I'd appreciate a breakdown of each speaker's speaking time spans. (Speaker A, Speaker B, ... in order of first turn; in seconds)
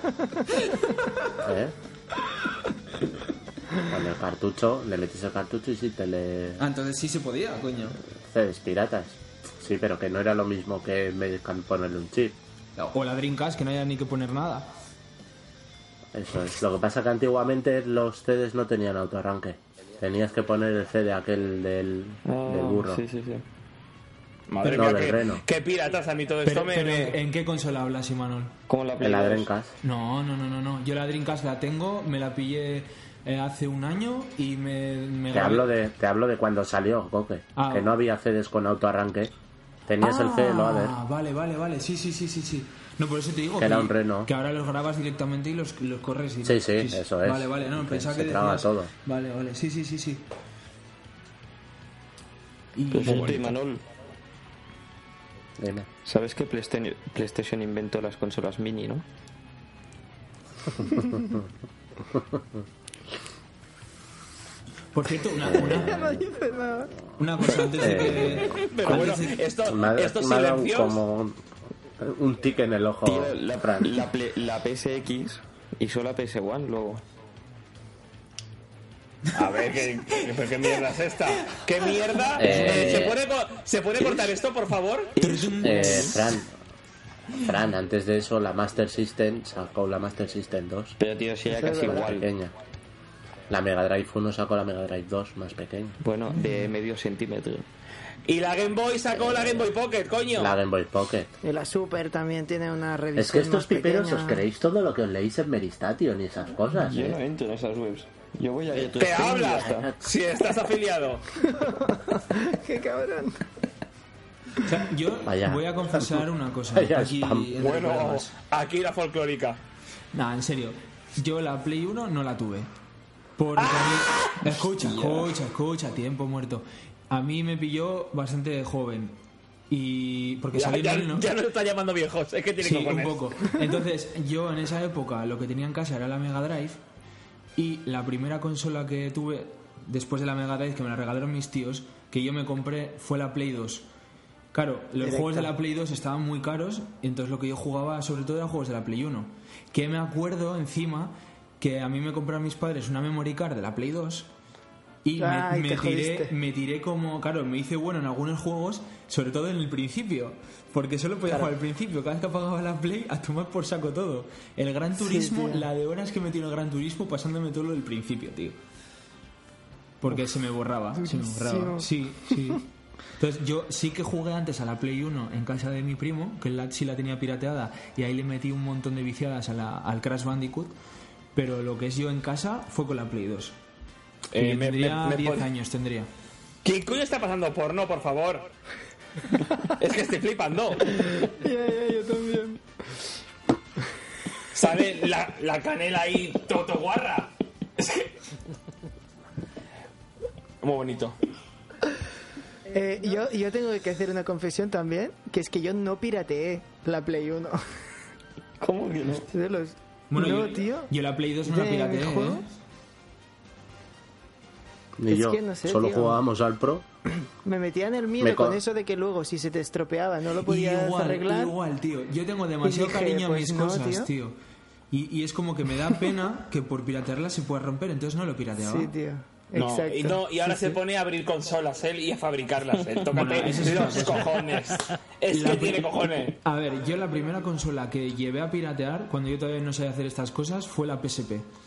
Speaker A: 0.5-1.3, 6.6-8.0, 12.8-14.7, 26.4-28.5, 29.8-35.7, 37.5-37.9, 40.0-50.2, 52.8-53.5, 64.9-66.2, 67.2-69.4, 80.1-80.8, 82.2-83.1, 85.2-86.3, 96.4-96.6, 114.6-118.3, 120.1-122.7, 123.4-129.2, 129.7-131.3, 132.6-136.8, 137.6-143.8, 144.5-154.3, 155.0-168.6, 170.0-180.7, 181.3-183.6, 184.3-186.1, 210.1-212.4, 220.4-224.3, 224.9-228.9, 233.1-234.4, 235.3-241.5
Speaker B: 1.4-1.7, 3.9-6.6, 8.2-12.3, 16.1-23.0, 24.6-25.4, 29.0-29.7, 35.3-39.3, 39.9-40.9, 43.6-44.3, 46.4-48.9, 55.6-55.9, 62.1-62.4, 65.4-66.2, 67.8-68.5, 69.7-71.4, 72.0-74.1, 82.4-83.2, 85.6-86.5, 87.4-91.0, 91.7-92.5, 93.5-96.0, 99.2-99.6, 100.4-101.3, 103.2-107.2, 109.4-110.0, 115.2-117.5, 215.0-216.8, 218.2-218.6
Speaker C: 22.2-23.4, 28.7-29.5, 52.9-53.8, 56.0-59.0, 67.4-67.8, 73.0-77.0, 84.0-84.3, 85.2-86.1, 91.0-92.3, 96.0-97.7, 106.8-109.9, 124.7-125.3, 208.6-209.3
Speaker D: 24.5-27.2, 68.5-71.0, 79.3-85.1, 98.3-100.5, 109.0-111.2, 117.6-119.6, 123.6-124.3, 130.5-133.2, 184.3-185.4, 186.6-188.5, 189.8-191.1, 194.5-198.1, 200.6-201.2, 229.5-236.4
Speaker E: 65.7-66.9, 91.5-92.2, 101.4-104.4, 111.4-113.4, 145.0-145.5, 155.2-156.3, 164.9-165.7, 171.0-172.6, 190.9-192.6, 202.7-207.6, 209.3-210.9, 211.4-212.4, 215.1-216.2, 217.4-221.5, 222.6-224.1, 228.6-230.8